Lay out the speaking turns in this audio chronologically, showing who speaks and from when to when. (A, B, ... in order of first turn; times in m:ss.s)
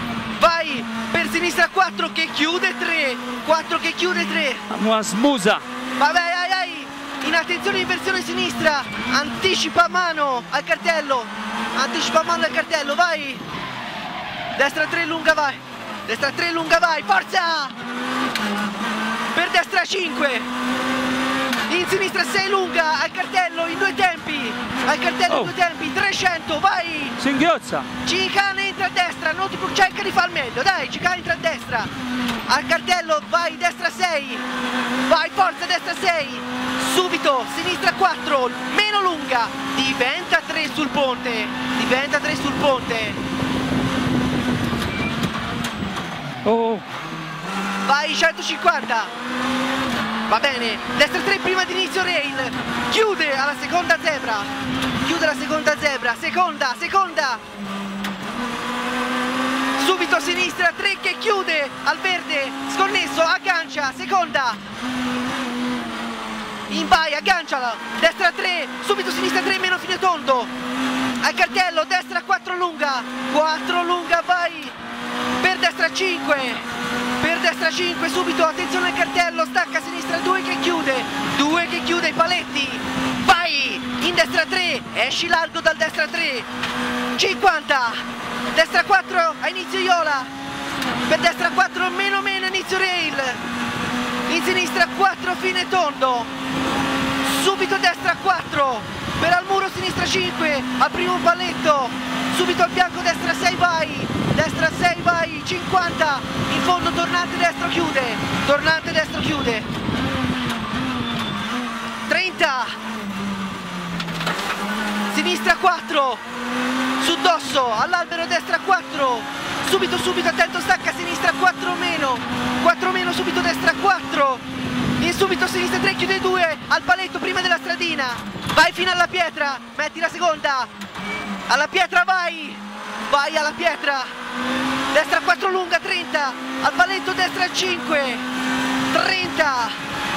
0:00.4-0:04.7 A
0:04.7-0:05.6 B
0:06.0-0:13.4 A
0:14.6-0:17.8 A
0:19.3-0:20.5 A
0:21.7-0:27.2 A
0:27.2-0:27.9 B
0:28.0-0:31.9 A
0:32.5-0:34.4 A
0:35.1-0:43.2 A
0:46.4-0:46.8 B
0:47.8-0:49.1 A
0:50.3-0:54.5 A
0:55.0-0:57.4 A
0:59.8-1:04.6 A
1:06.7-1:10.5 A
1:11.2-1:14.8 A
1:15.4-1:16.7 A
1:17.2-1:26.5 A
1:27.2-1:30.3 A
1:31.1-1:33.4 A
1:34.3-1:36.3 A
1:37.2-1:49.7 A
1:52.1-1:52.8 A
1:55.1-1:56.2 A
1:57.0-2:04.4 A
2:05.0-2:10.7 A
2:11.5-2:14.1 A
2:14.9-2:18.2 A
2:18.9-2:19.8 A